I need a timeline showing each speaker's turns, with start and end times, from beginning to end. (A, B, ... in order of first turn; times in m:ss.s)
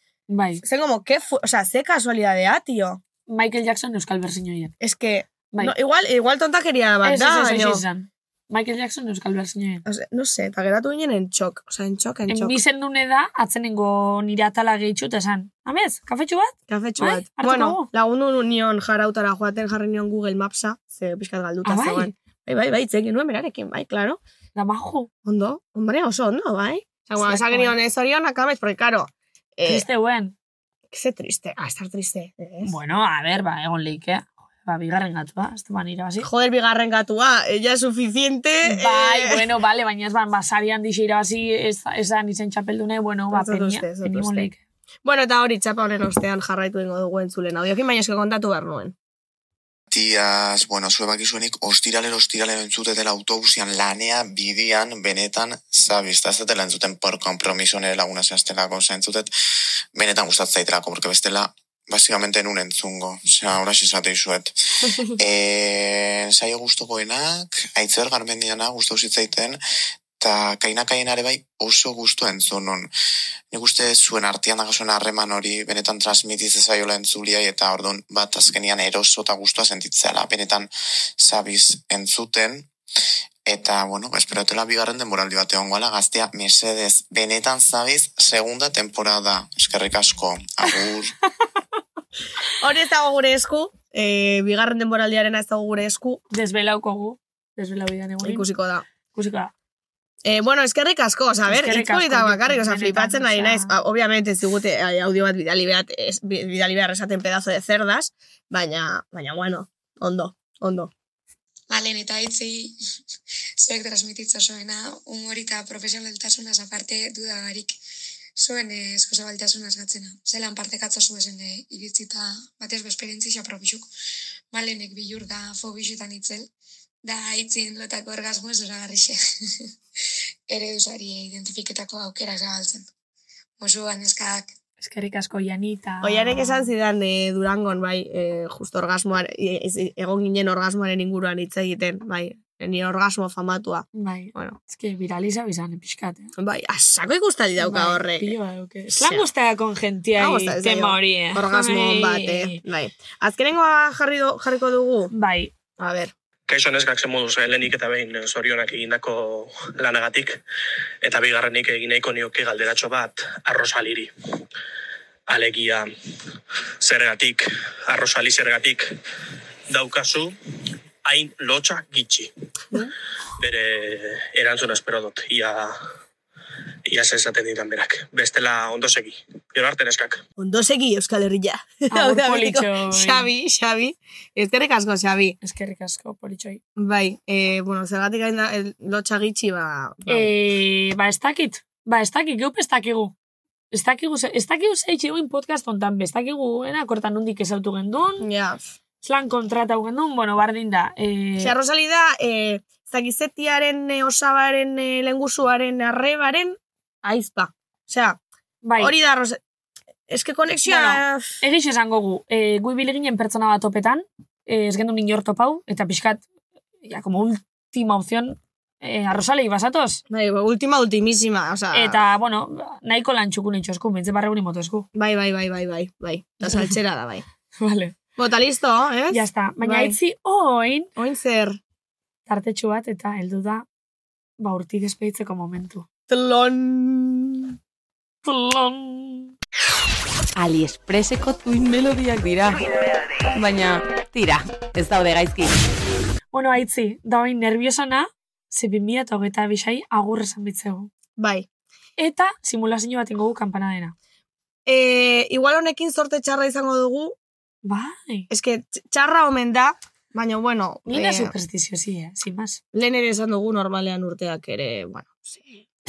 0:00.3-0:00.6 A
0:00.6-0:03.0 B
0:03.3-0:04.7 A
0:04.8-0:07.8 B
0:07.0-0:09.8 A
0:09.8-0:12.6 B
0:12.3-0:17.9 A
0:16.7-0:24.2 B
0:21.6-0:22.1 A
0:24.5-0:25.1 A
0:25.2-0:29.8 B
0:27.2-0:27.8 A
0:29.6-0:30.3 A
0:30.9-0:32.7 B
0:32.6-0:36.3 A
0:36.2-0:39.5 B
0:38.6-0:44.6 A
0:43.3-0:44.5 B
0:45.0-0:48.9 B
0:49.9-0:59.3 C
0:59.9-1:04.5 C
1:05.2-1:09.6 C
1:10.2-1:12.9 C
1:13.5-1:22.7 C
1:23.5-1:31.1 C
1:32.6-1:36.2 B
1:36.3-1:38.5 A
1:38.2-1:38.8 B
1:39.1-1:39.5 A
1:40.2-1:50.9 B
1:41.4-1:43.8 A
1:51.7-1:52.7 D
1:53.6-1:57.8 D
1:58.4-2:03.9 D
2:04.5-2:06.5 D
2:07.0-2:09.2 D
2:10.5-2:12.8 D
2:13.6-2:14.5 D
2:14.8-2:16.7 A
2:16.0-2:24.6 B
2:23.9-2:26.3 A
2:26.4-2:28.3 B
2:27.6-2:32.6 A
2:28.9-2:29.3 B
2:30.2-2:35.1 B
2:35.1-2:35.5 A
2:35.8-2:36.1 B
2:36.5-2:40.4 E
2:41.0-2:44.1 E
2:45.3-2:45.9 E
2:46.8-2:48.9 E
2:49.7-2:50.3 E
2:51.0-2:52.3 E
2:53.4-2:55.8 E
2:56.8-3:00.2 E
3:00.4-3:05.4 B
3:01.9-3:03.3 A
3:05.4-3:06.6 A
3:06.8-3:10.3 B
3:10.1-3:13.1 A
3:13.7-3:18.3 A
3:18.2-3:18.7 B
3:19.0-3:21.5 A
3:21.4-3:28.2 B
3:28.6-3:28.9 A
3:28.8-3:29.4 B
3:30.1-3:31.4 B
3:30.6-3:36.2 A
3:36.8-3:40.0 A
3:40.1-3:42.0 B
3:41.7-3:44.9 A
3:44.9-3:47.2 B
3:46.4-3:46.7 A
3:47.6-3:48.0 A
3:48.2-3:50.0 B
3:49.1-3:50.9 A
3:51.0-3:51.6 B
3:52.3-3:53.6 A
3:54.4-3:55.8 A
3:56.1-3:57.6 B
3:58.2-3:59.3 A
4:00.4-4:02.6 F
4:03.3-4:05.5 F
4:06.3-4:10.9 A
4:11.2-4:11.5 B
4:12.0-4:13.9 A
4:14.6-4:17.2 B
4:17.6-4:18.3 A
4:18.3-4:21.3 B
4:20.9-4:22.6 A
4:22.7-4:25.6 B